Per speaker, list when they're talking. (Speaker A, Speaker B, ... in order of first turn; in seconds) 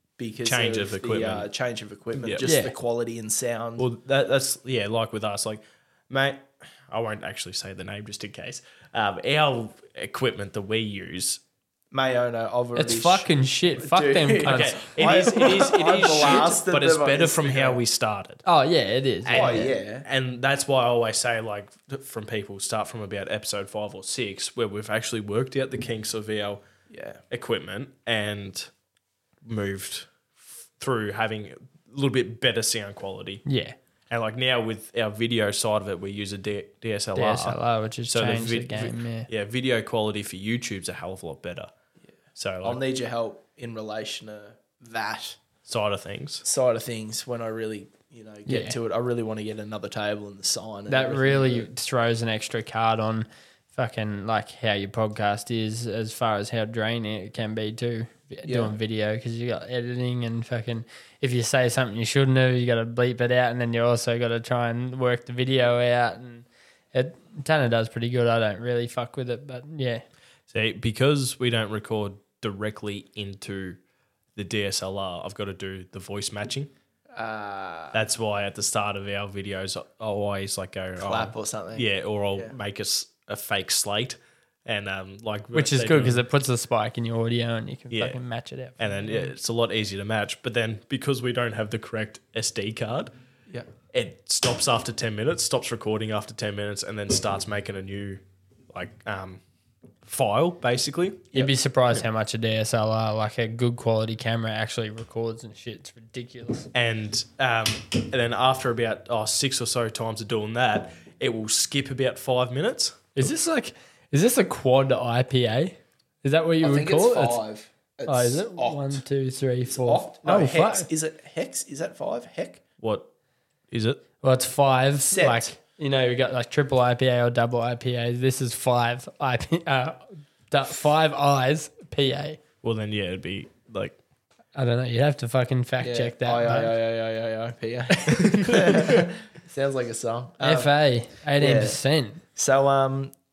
Speaker A: 0.2-3.9, 11.9-17.8, 19.3-20.1, 26.9-27.2, 42.6-45.4, 46.4-51.7, 58.5-58.7, 77.1-78.0, 81.0-82.5, 116.6-119.0, 119.7-122.6, 125.1-125.5, 135.8-140.7, 141.4-141.8, 142.3-143.1
Speaker B: 0.5-1.5, 3.8-11.4, 14.4-18.4, 19.3-26.6, 27.3-28.7, 29.4-30.1, 30.8-33.4, 34.1-41.7, 42.4-42.8, 45.7-46.4, 70.5-73.8, 74.4-76.7, 77.9-86.2, 87.9-88.2, 88.8-93.1, 93.9-99.4, 100.0-101.3, 106.7-113.1, 122.8-123.1, 123.7-124.0, 132.6-134.0, 138.2-138.9
Speaker C: 2.4-2.8, 12.8-15.2, 18.4-19.7, 33.5-33.8, 37.1-39.3, 48.5-48.8, 50.9-70.0, 85.5-89.3, 101.3-106.7, 113.2-117.4, 118.1-120.9, 124.2-132.4, 134.6-136.7, 140.4-142.2